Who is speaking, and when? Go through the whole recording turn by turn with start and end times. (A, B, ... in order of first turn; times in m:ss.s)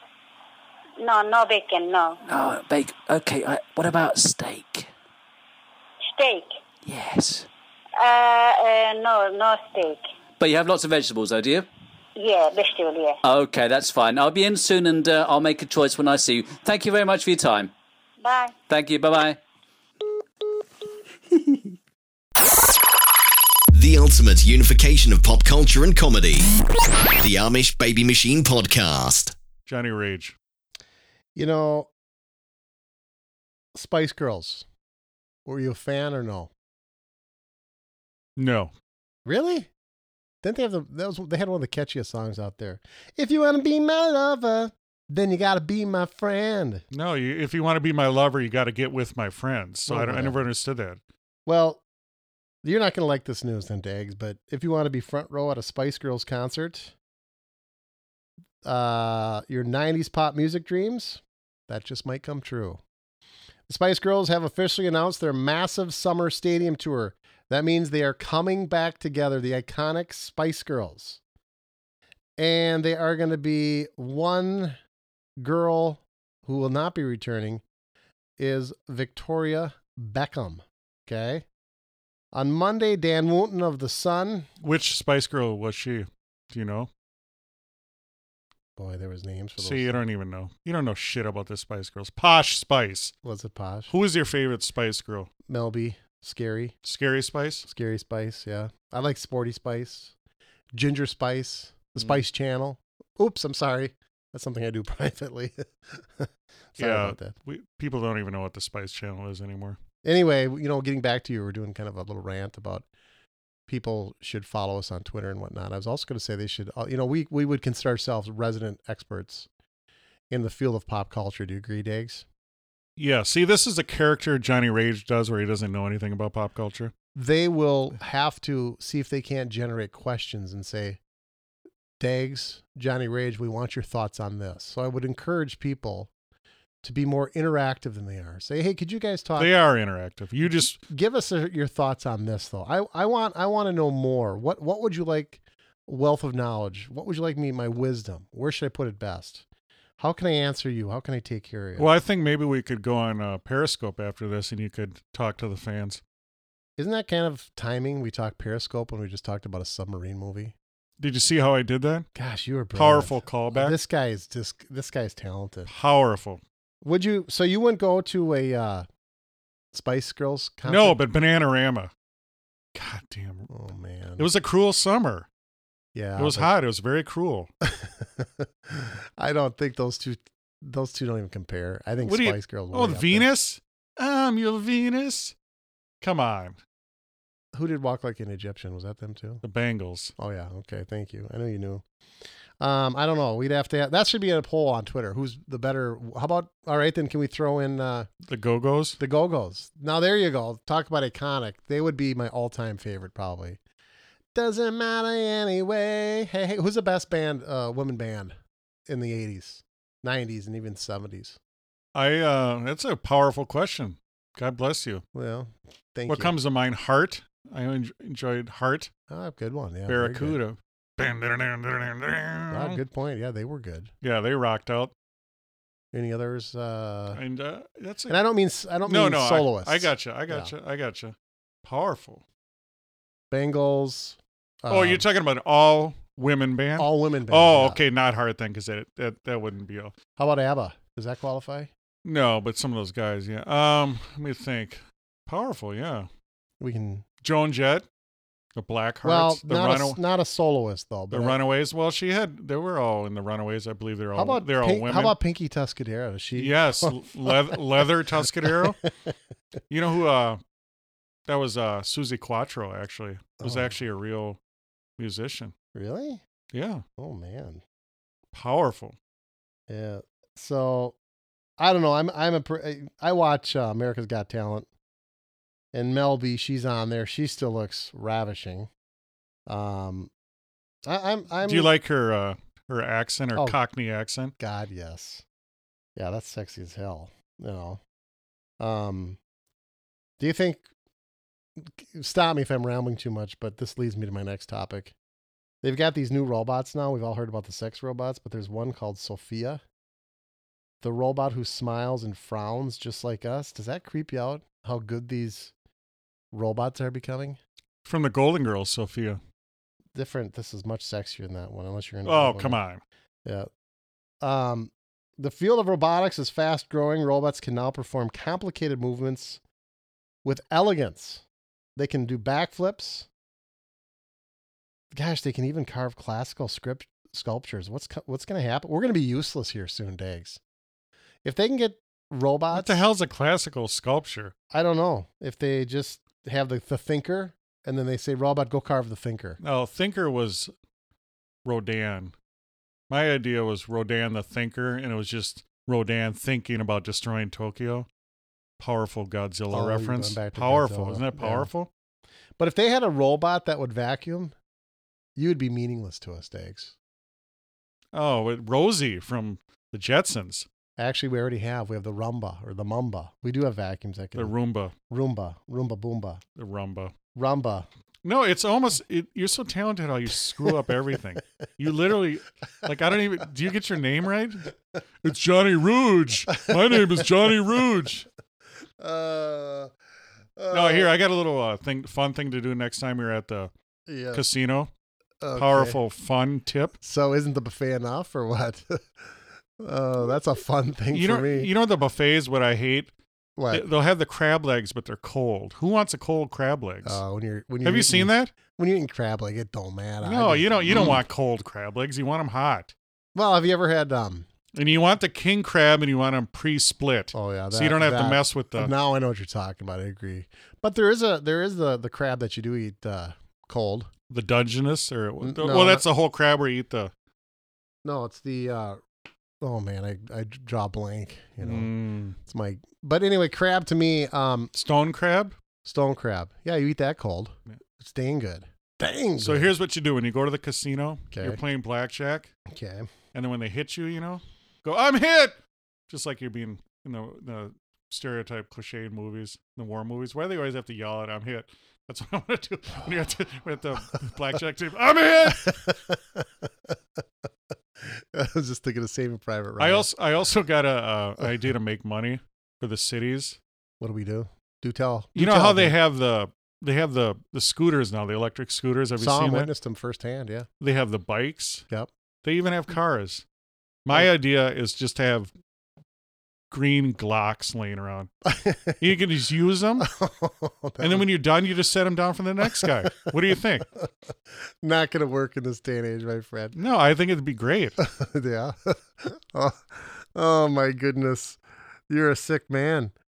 0:01.0-0:02.2 A
0:02.2-0:04.9 B
0:06.1-0:06.5 A
0:06.8-0:07.5 B
0:08.0-0:10.0 A
0:10.4-0:11.7 B
0:12.2-0:13.2 A
0:13.2-0:17.7 B
0:18.2-0:18.5 A
0:18.7-0:19.4 B
0:23.7-0:26.5 C
0:27.2-0:29.4 C
0:29.6-0:30.4 D
0:31.4-0:31.9 E
0:33.7-0:34.6 E
0:35.4-0:36.5 E
0:38.4-0:38.7 D
0:39.2-0:39.7 E
0:40.4-0:46.8 E
0:46.9-0:51.0 D
0:49.9-0:50.4 E
0:51.4-0:51.8 E
0:52.6-0:56.9 E
0:58.6-1:02.8 E
1:03.7-1:11.2 E
1:12.4-1:14.8 E
1:15.4-1:17.6 E
1:18.4-1:21.4 E
1:22.3-1:24.5 E
1:24.6-1:26.9 D
1:28.8-1:30.0 E
1:29.6-1:33.1 D
1:33.2-1:33.9 E
1:33.9-1:35.3 D
1:35.5-1:36.7 E
1:36.8-1:37.7 D
1:37.6-1:40.1 E
1:40.7-1:47.3 E
1:42.0-1:42.2 D
1:46.8-1:49.8 D
1:50.0-1:52.8 E
1:53.7-1:59.5 E
2:00.3-2:02.2 E
2:03.0-2:06.9 D
2:07.1-2:11.0 E
2:12.0-2:16.1 E
2:16.8-2:19.5 E
2:19.4-2:20.8 D
2:20.5-2:29.4 E
2:30.0-2:31.9 E
2:31.8-2:36.0 D
2:36.8-2:40.5 E
2:41.0-2:42.1 D
2:42.1-2:45.7 E
2:42.7-2:43.8 D
2:45.7-2:46.4 D
2:46.8-2:48.9 E
2:49.7-2:51.0 E
2:50.6-2:51.9 D
2:52.7-2:53.5 D
2:53.5-2:54.3 E
2:54.2-2:55.3 D
2:55.9-2:56.5 E
2:56.2-2:57.5 D
2:57.6-3:03.3 E
3:02.0-3:05.3 D
3:06.0-3:06.6 D
3:07.5-3:09.4 E
3:09.4-3:10.1 D
3:10.2-3:11.8 E
3:12.6-3:18.1 E
3:18.3-3:19.0 D
3:19.0-3:23.6 E
3:24.3-3:28.4 E
3:28.9-3:31.4 E
3:31.9-3:35.0 D
3:35.1-3:36.4 E
3:36.1-3:38.9 D
3:39.1-3:40.4 E
3:39.9-3:42.8 D
3:42.5-3:43.9 E
3:44.0-3:44.9 D
3:45.9-3:47.2 E
3:47.1-3:48.2 D
3:48.1-3:50.5 E
3:48.8-3:52.2 D
3:53.3-3:55.0 E
3:54.7-3:59.9 D
3:56.8-3:57.8 E
4:00.2-4:01.7 E
4:02.0-4:06.1 D
4:06.6-4:07.0 E
4:07.2-4:07.9 D
4:08.6-4:10.0 D
4:09.0-4:11.4 E
4:11.1-4:15.1 D
4:14.2-4:17.6 E
4:16.4-4:18.8 D
4:18.4-4:18.7 E
4:19.7-4:20.4 D
4:21.3-4:24.4 D
4:23.4-4:23.7 E
4:25.0-4:25.5 D
4:25.7-4:26.2 E
4:26.5-4:26.8 D
4:27.0-4:27.6 E
4:28.3-4:29.0 D
4:29.7-4:31.0 E
4:31.6-4:34.7 E
4:35.7-4:38.7 E
4:39.5-4:40.1 E
4:40.8-4:41.7 E
4:41.4-4:44.3 D
4:43.3-4:43.6 E
4:44.4-4:45.2 E
4:46.0-4:47.8 E
4:48.6-4:49.2 E
4:50.2-4:50.7 E
4:51.6-4:54.9 E
4:55.6-4:59.6 E
5:00.8-5:05.5 E
5:06.3-5:07.4 E
5:07.8-5:09.2 D
5:09.9-5:12.6 E
5:12.0-5:12.8 D
5:14.2-5:19.4 E
5:20.2-5:21.2 E
5:21.8-5:23.1 E
5:24.9-5:30.4 E
5:31.2-5:32.8 E
5:32.5-5:34.3 D
5:34.5-5:39.4 E
5:39.4-5:40.5 D
5:41.4-5:42.1 D
5:42.9-5:47.9 D
5:48.6-5:51.7 D
5:49.5-5:51.5 E
5:52.4-5:54.3 E
5:55.2-5:56.7 E
5:57.9-6:00.5 D
6:00.8-6:04.3 E
6:04.1-6:04.7 D
6:04.9-6:06.2 E
6:06.4-6:06.9 D
6:07.1-6:07.6 E
6:08.0-6:14.5 D
6:15.0-6:18.1 D
6:18.8-6:19.7 E
6:20.4-6:20.9 E
6:20.5-6:23.5 D
6:23.9-6:24.2 E
6:24.1-6:24.7 D
6:25.2-6:25.8 E
6:25.3-6:26.8 D
6:26.8-6:31.5 E
6:30.9-6:32.9 D
6:33.4-6:33.6 E
6:33.5-6:37.0 D
6:36.8-6:41.0 E
6:37.6-6:38.3 D
6:40.0-6:42.7 D
6:43.1-6:44.3 E
6:44.5-6:48.7 D
6:47.1-6:53.9 E
6:54.1-6:56.9 D
6:55.2-6:55.8 E
6:57.8-6:58.8 E
6:59.4-7:04.5 E
7:01.4-7:02.2 D
7:04.5-7:05.4 D
7:05.6-7:09.5 E
7:09.2-7:12.3 D
7:11.1-7:11.4 E
7:12.5-7:12.9 E
7:13.1-7:15.4 D
7:15.9-7:25.6 D
7:25.3-7:26.7 E
7:27.8-7:29.9 E
7:29.6-7:33.4 D
7:33.8-7:35.7 E
7:35.1-7:39.5 D
7:39.0-7:40.5 E
7:40.6-7:41.6 D
7:42.2-7:43.2 D
7:43.8-7:45.3 D
7:46.5-7:48.1 D
7:48.2-7:48.8 E
7:48.8-7:49.9 D
7:49.8-7:51.1 E
7:50.8-7:53.7 D
7:52.5-7:52.7 E
7:54.6-7:56.6 E
7:56.5-7:57.8 D
7:57.8-8:01.4 E
8:01.9-8:02.9 E